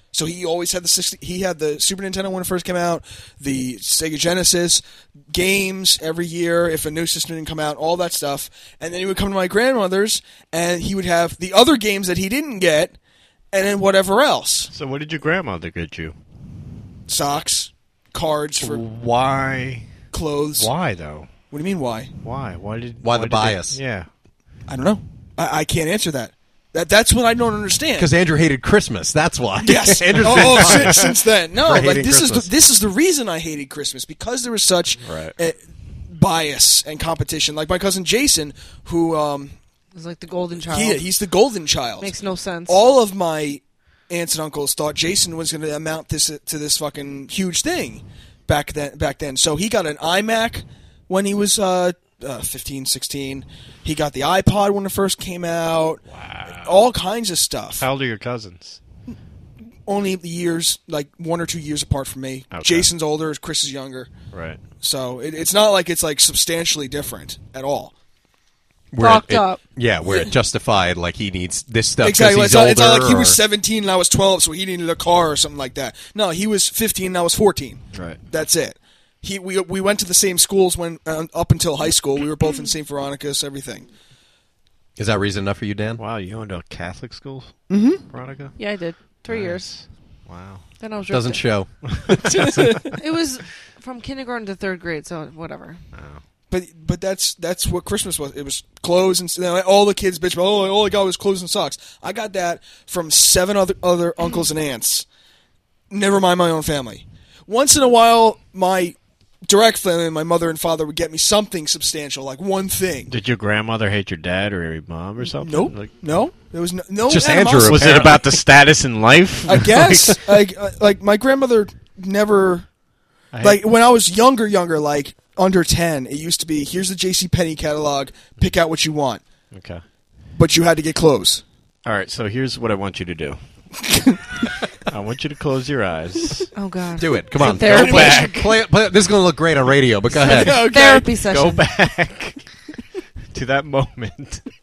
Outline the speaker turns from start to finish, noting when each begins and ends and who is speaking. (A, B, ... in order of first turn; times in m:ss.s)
0:00.1-0:13.0 A
0:13.5-0:14.7 A
0:14.7-0:16.2 B
0:17.1-0:18.8 A
0:18.6-0:19.9 B
0:20.1-0:20.7 A
0:20.6-0:21.3 B
0:21.5-0:22.1 A
0:22.2-0:24.1 B
0:23.0-0:23.8 C
0:24.7-0:28.1 A
0:28.0-0:32.4 C
0:29.6-0:35.6 A
0:30.3-0:31.0 B
0:35.0-0:35.4 B
0:36.1-0:39.6 A
0:40.0-0:41.1 D
0:40.7-0:57.8 A
0:42.0-0:42.8 D
0:56.1-0:56.9 B
0:57.8-0:58.8 B
0:59.9-1:04.1 A
1:02.5-1:02.9 B
1:04.3-1:04.6 B
1:04.8-1:07.9 A
1:08.9-1:13.4 C
1:09.0-1:10.3 D
1:12.0-1:23.9 A
1:17.9-1:18.2 B
1:25.0-1:26.0 C
1:26.0-1:28.6 B
1:27.7-1:28.0 A
1:28.6-1:29.8 D
1:29.3-1:30.6 B
1:30.8-1:31.6 D
1:31.1-1:31.7 C
1:32.2-1:32.9 A
1:32.9-1:35.8 D
1:35.9-1:36.2 B
1:36.5-1:45.1 A
1:45.9-1:53.1 A
1:53.1-1:55.9 B
1:55.4-1:58.2 A
1:57.1-1:58.3 C
1:57.6-2:00.2 B
1:59.5-2:02.7 A
2:03.3-2:03.6 B
2:03.4-2:09.2 A
2:09.5-2:09.8 B
2:10.4-2:11.4 A
2:11.8-2:13.4 B
2:14.9-2:16.5 B
2:16.6-2:18.4 D
2:17.0-2:20.7 C
2:17.5-2:18.3 A
2:17.7-2:18.4 B
2:20.1-2:21.1 A
2:20.3-2:21.7 D
2:21.2-2:22.4 B
2:23.3-2:24.4 B